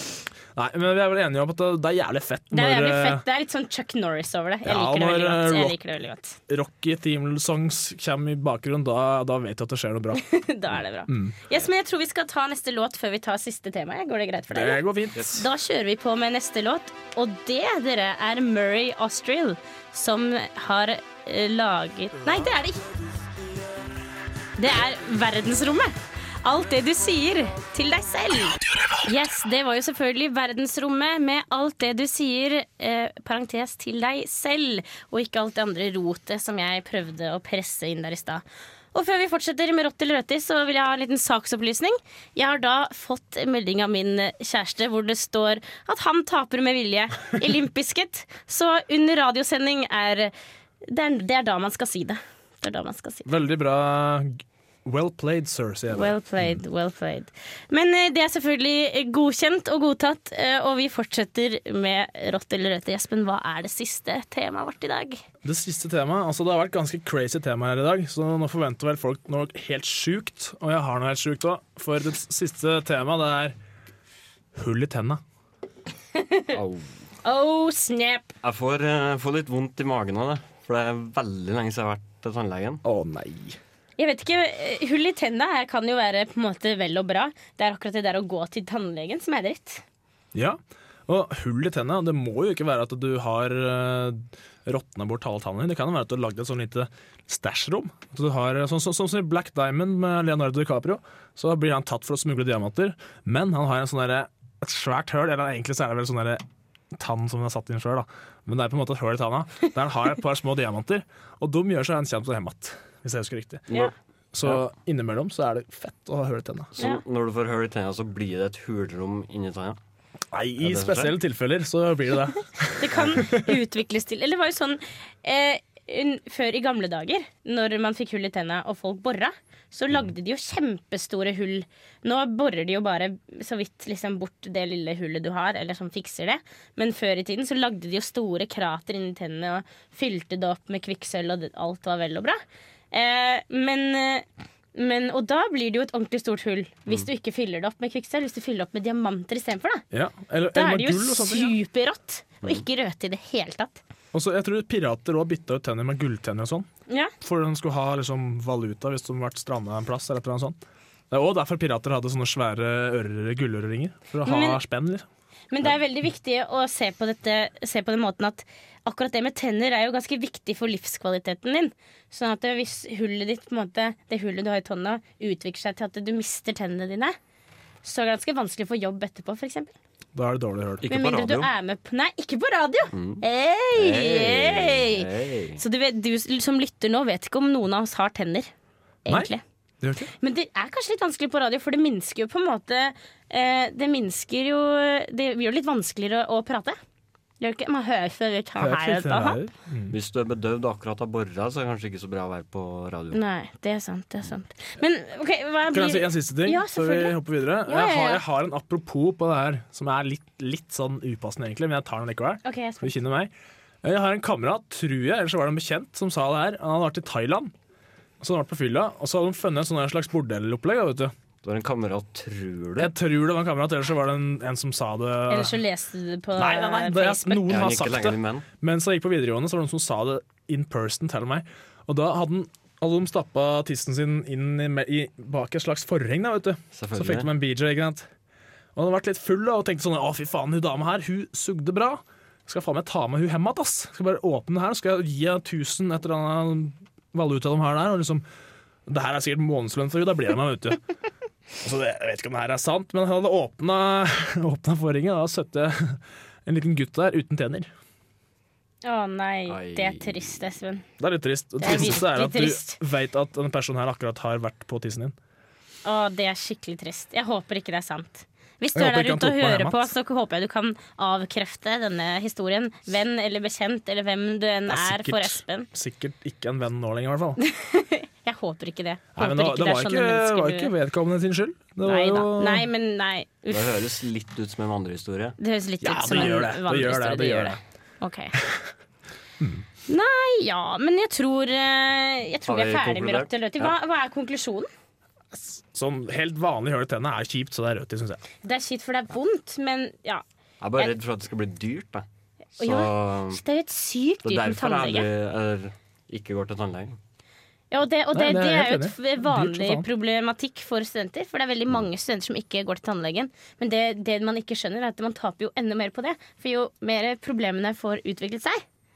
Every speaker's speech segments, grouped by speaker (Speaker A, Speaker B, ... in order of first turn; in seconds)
Speaker A: 0.5-3.2, 4.6-5.7, 6.5-10.3, 11.1-11.4, 14.5-15.4, 53.2-56.6, 65.4-73.5, 74.5-75.2, 82.8-83.6, 90.3-113.7, 114.3-116.7, 120.3-123.5, 149.9-151.5, 154.1-156.7, 157.2-160.6, 161.1-165.1, 180.1-180.9, 189.8-190.1, 198.6-199.9, 205.7-213.3, 213.8-217.5, 218.2-221.1, 222.8-225.6, 226.4-238.1, 238.8-248.2, 248.9-250.8, 251.6-257.7, 261.0-265.1, 268.7-269.9, 274.7-277.4, 279.1-282.6, 285.8-287.6, 289.4-289.6, 295.3-298.2, 308.1-309.9
Speaker B: 2.5-6.4, 10.1-22.8, 24.6-50.3, 50.8-53.3, 55.9-65.2, 76.2-76.5, 77.2-78.3, 84.0-89.8, 122.8-142.4, 142.9-149.8, 150.5-153.8, 164.2-164.6, 165.5-177.2, 177.8-179.7, 180.9-188.5, 189.0-189.4, 190.2-196.8, 197.4-199.4, 203.1-208.2, 212.4-213.0, 225.3-227.6, 258.8-260.8, 261.6-262.8, 265.8-275.7, 277.4-280.7, 281.8-283.7, 285.4-288.4, 289.9-294.7, 298.4-300.2, 302.6-305.1, 307.7-318.6
Speaker C: 76.5-76.9, 78.4-82.8, 116.7-119.8, 120.6-121.1, 180.8-181.5, 182.9-183.2, 183.7-185.6, 199.9-203.2, 221.4-222.9, 227.5-228.4, 236.7-237.3, 259.5-260.4, 283.5-285.4, 292.5-293.7, 300.6-302.1, 302.6-303.4, 304.2-307.0